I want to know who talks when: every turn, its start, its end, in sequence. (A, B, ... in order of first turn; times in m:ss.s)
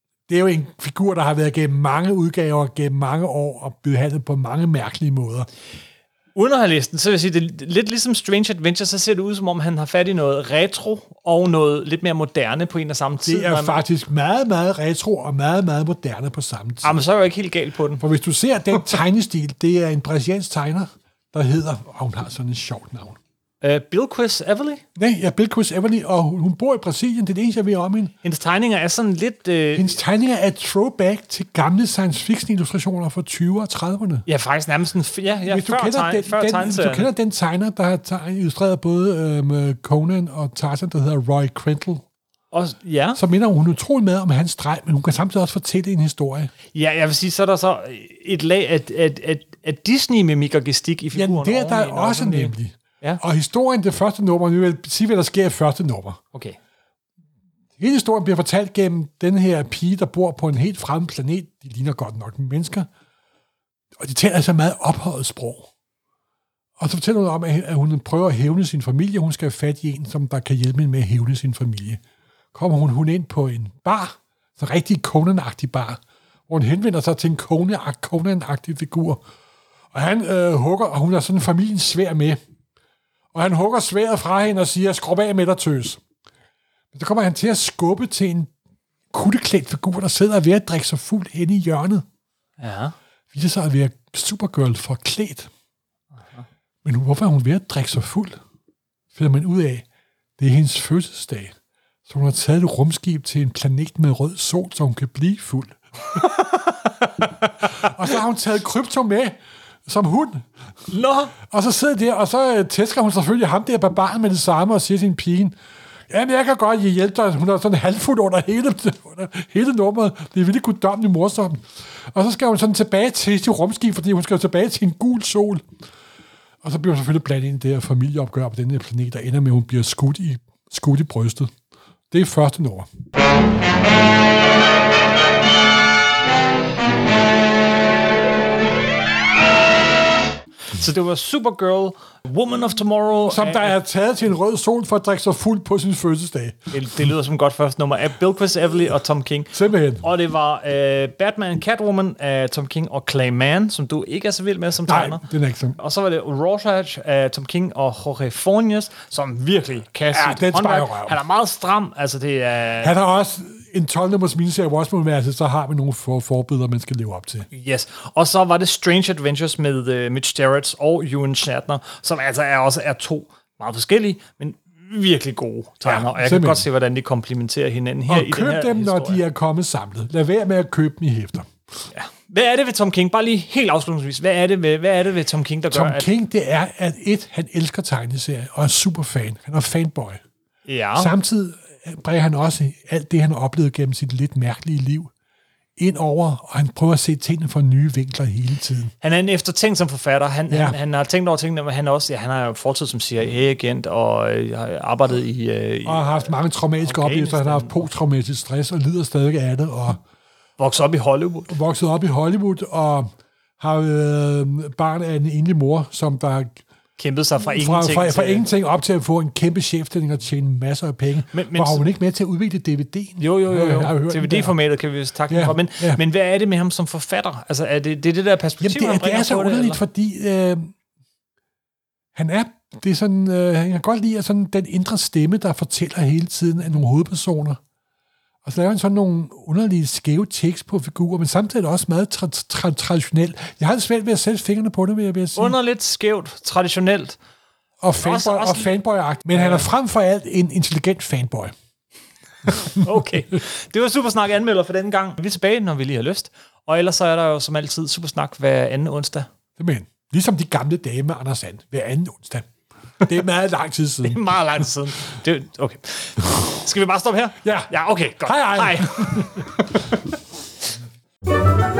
0:00.3-0:05.5 A
0:06.4-0:13.8 B
0:13.2-0:17.0 A
0:16.8-0:18.0 B
0:18.0-0:23.2 A
0:23.6-0:24.8 B
0:25.0-0:28.1 A
0:28.2-0:30.0 B
0:29.8-0:34.2 A
0:34.3-0:37.1 B
0:35.5-0:42.0 A
0:42.5-0:43.2 B
0:43.2-0:46.5 A
0:46.7-0:53.2 B
0:51.1-0:56.2 A
0:57.8-1:02.9 A
1:04.0-1:05.7 A
1:06.8-1:12.0 A
1:12.5-1:19.2 A
1:19.9-1:22.4 A
1:23.3-1:26.0 A
1:26.9-1:28.5 A
1:29.1-1:32.0 A
1:32.6-1:32.9 B
1:33.3-1:35.5 A
1:36.8-1:38.4 A
1:39.1-1:39.8 A
1:40.4-1:41.5 A
1:42.1-1:45.8 A
1:46.2-1:47.3 B
1:47.7-1:50.5 A
1:50.9-1:51.3 B
1:51.4-1:55.6 A
1:56.1-2:05.6 A
2:06.6-2:11.5 A
2:12.1-2:12.9 A
2:20.7-2:23.8 B
2:23.3-2:26.7 A
2:26.7-2:35.2 B
2:29.5-2:30.1 A
2:34.9-2:35.8 A
2:35.8-2:42.9 B
2:40.1-2:41.2 A
2:42.8-2:47.5 A
2:47.5-2:59.2 B
2:55.8-2:56.7 A
2:58.1-3:01.5 A
3:01.9-3:06.1 B
3:05.7-3:10.2 A
3:10.7-3:11.1 B
3:11.0-3:15.1 A
3:15.8-3:18.9 A
3:19.0-3:27.8 B
3:20.5-3:20.8 A
3:25.8-3:30.0 A
3:30.6-3:31.6 B
3:31.5-3:33.1 A
3:33.6-3:36.6 A
3:37.0-3:38.5 B
3:37.4-3:44.6 A
3:41.3-3:41.9 B
3:43.2-3:49.8 B
3:45.3-3:46.0 A
3:48.6-3:50.7 A
3:52.2-3:57.6 A
3:58.4-4:05.6 A
4:05.4-4:07.2 B
4:07.8-4:11.5 A
4:08.0-4:08.7 B
4:09.3-4:09.7 B
4:12.7-4:19.3 B
4:19.6-4:22.5 A
4:23.0-4:24.3 A
4:24.0-4:30.2 B
4:27.4-4:29.5 A